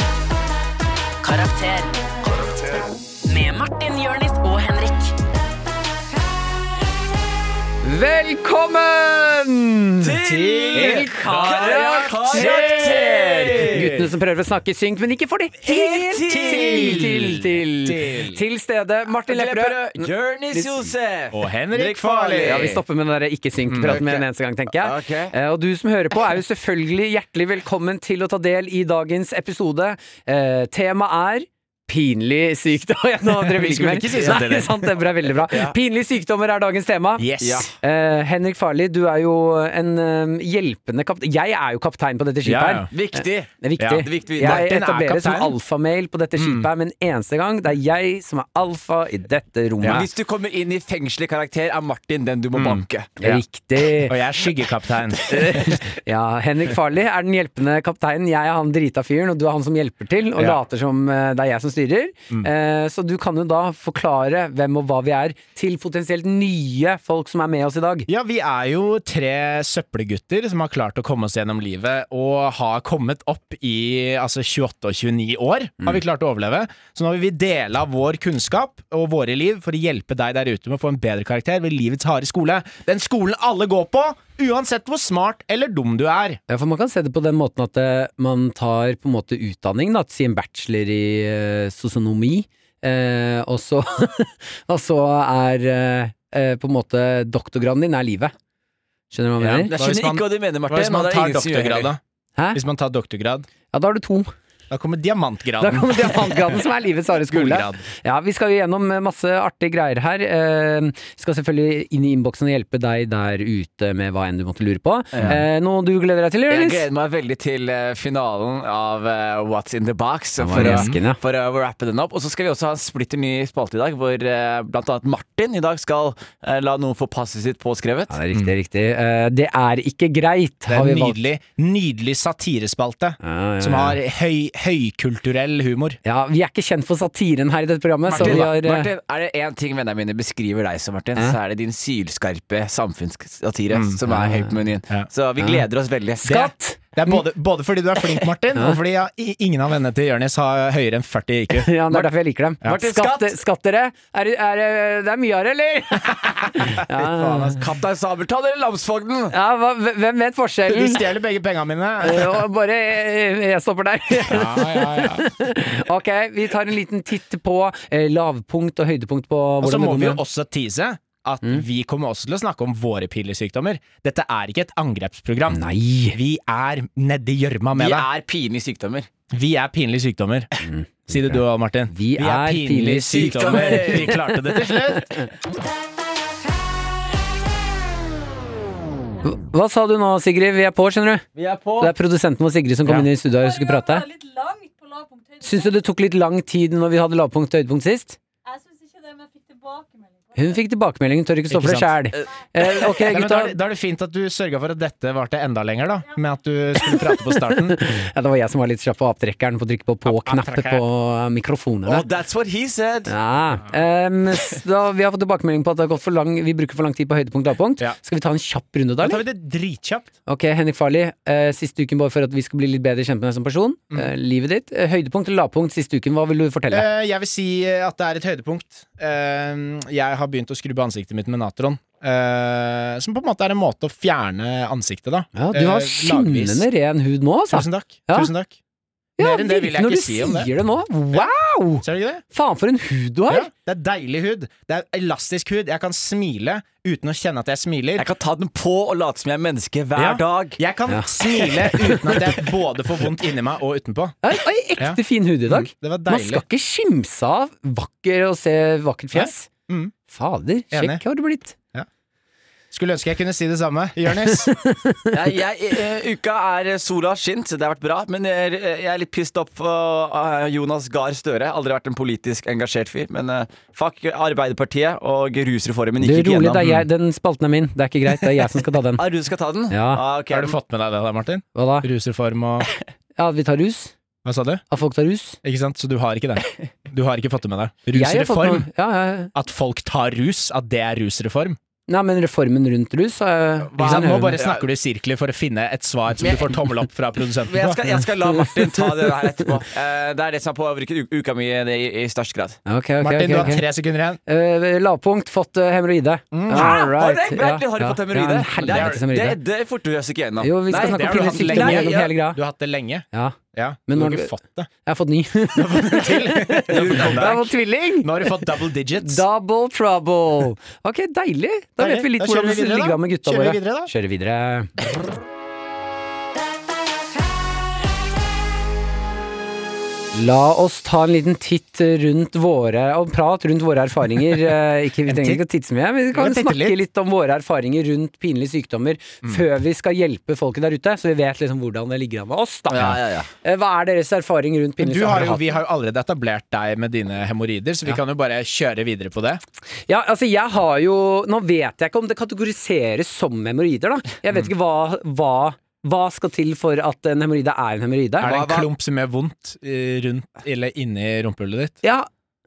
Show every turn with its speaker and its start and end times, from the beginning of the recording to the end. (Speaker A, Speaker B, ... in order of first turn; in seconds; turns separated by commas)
Speaker A: 1.2-5.1, Speaker B: 7.8-10.2, Speaker C: 10.0-13.9, Speaker D: 10.2-14.1, Speaker B: 10.7-20.9, Speaker C: 15.6-17.3, Speaker D: 16.2-18.4, Speaker C: 19.2-22.8, Speaker D: 21.3-22.8, Speaker B: 22.4-37.3, Speaker D: 23.7-24.0, Speaker C: 23.9-25.3, Speaker D: 33.3-34.9, Speaker C: 34.1-34.4, Speaker C: 35.5-35.8, Speaker D: 37.2-37.7, Speaker C: 37.4-37.7, Speaker B: 37.8-50.1, Speaker D: 42.4-42.9, Speaker C: 42.9-44.6, Speaker D: 43.8-45.6, Speaker D: 46.4-46.7, Speaker D: 49.8-50.0, Speaker C: 49.9-53.1, Speaker D: 52.5-53.4, Speaker B: 53.2-54.1, Speaker D: 54.0-55.8, Speaker B: 55.3-68.1, Speaker D: 68.1-86.4, Speaker B: 86.5-98.3, Speaker B: 99.1-99.7, Speaker C: 99.4-101.9, Speaker D: 99.7-102.0, Speaker D: 102.5-103.5, Speaker B: 103.7-104.3, Speaker D: 104.7-106.6, Speaker B: 105.6-116.9, Speaker D: 107.3-107.8, Speaker C: 115.1-115.4, Speaker C: 116.5-128.1, Speaker B: 120.4-121.2, Speaker D: 120.5-121.0, Speaker B: 128.1-131.2, Speaker D: 130.7-136.0, Speaker B: 133.2-134.0, Speaker B: 136.1-138.9, Speaker D: 138.1-138.5, Speaker C: 138.2-146.3, Speaker D: 143.7-144.0, Speaker B: 144.1-144.5, Speaker B: 146.2-147.2, Speaker D: 146.2-152.1, Speaker B: 151.5-157.6, Speaker C: 152.7-153.4, Speaker D: 156.2-157.6, Speaker C: 157.6-159.3, Speaker B: 159.3-161.1, Speaker D: 160.7-162.4, Speaker B: 162.0-170.2, Speaker D: 164.3-165.3, Speaker D: 169.6-178.1, Speaker B: 175.5-176.2, Speaker C: 177.7-179.1, Speaker D: 179.3-180.5, Speaker B: 180.6-181.4, Speaker D: 181.1-185.2, Speaker B: 181.9-185.2, Speaker C: 183.1-184.2, Speaker B: 189.2-191.2, Speaker C: 191.3-191.9, Speaker B: 191.8-194.1, Speaker E: 193.3-195.9, Speaker B: 195.4-198.2, Speaker E: 198.4-200.6, Speaker B: 200.4-203.6, Speaker D: 201.5-202.0, Speaker C: 202.1-202.9, Speaker D: 203.0-207.8, Speaker B: 206.9-212.1, Speaker D: 210.1-210.8, Speaker C: 211.9-213.1, Speaker B: 213.1-219.3, Speaker D: 219.0-220.1, Speaker B: 220.3-226.9, Speaker D: 226.7-236.7, Speaker B: 235.3-238.3, Speaker D: 237.5-238.6, Speaker B: 239.2-243.5, Speaker D: 239.2-240.5, Speaker D: 241.1-242.2, Speaker D: 243.3-248.1, Speaker C: 248.0-250.6, Speaker D: 250.0-254.2, Speaker B: 250.9-252.2, Speaker B: 254.2-259.5, Speaker D: 254.8-256.4, Speaker D: 259.1-259.9, Speaker B: 260.1-261.6, Speaker D: 260.7-261.0, Speaker D: 262.7-264.5, Speaker B: 264.3-265.1, Speaker C: 265.1-276.7, Speaker B: 276.0-279.1, Speaker C: 279.0-280.6, Speaker B: 279.7-280.0, Speaker D: 280.3-282.7, Speaker B: 281.6-281.9, Speaker B: 283.2-283.9, Speaker D: 284.2-284.6, Speaker B: 284.7-285.4, Speaker D: 285.4-288.7, Speaker B: 287.9-289.3, Speaker D: 289.3-291.6, Speaker B: 291.9-294.4, Speaker D: 293.8-297.8, Speaker C: 293.8-294.6, Speaker C: 296.2-296.6, Speaker C: 297.5-302.6, Speaker B: 302.7-303.7, Speaker D: 303.0-304.2, Speaker B: 304.3-309.4, Speaker D: 306.3-306.9, Speaker C: 306.5-312.1, Speaker D: 308.6-309.1, Speaker B: 310.4-312.4, Speaker D: 310.7-314.7, Speaker B: 313.1-314.3, Speaker B: 314.8-324.8, Speaker D: 315.5-319.2, Speaker C: 316.7-317.5, Speaker D: 321.8-323.9, Speaker B: 330.1-345.6, Speaker D: 335.1-335.4, Speaker D: 336.1-336.8, Speaker C: 342.7-343.3, Speaker D: 344.8-349.4, Speaker B: 349.9-358.4, Speaker D: 358.2-361.8, Speaker C: 358.2-358.7, Speaker B: 361.8-362.1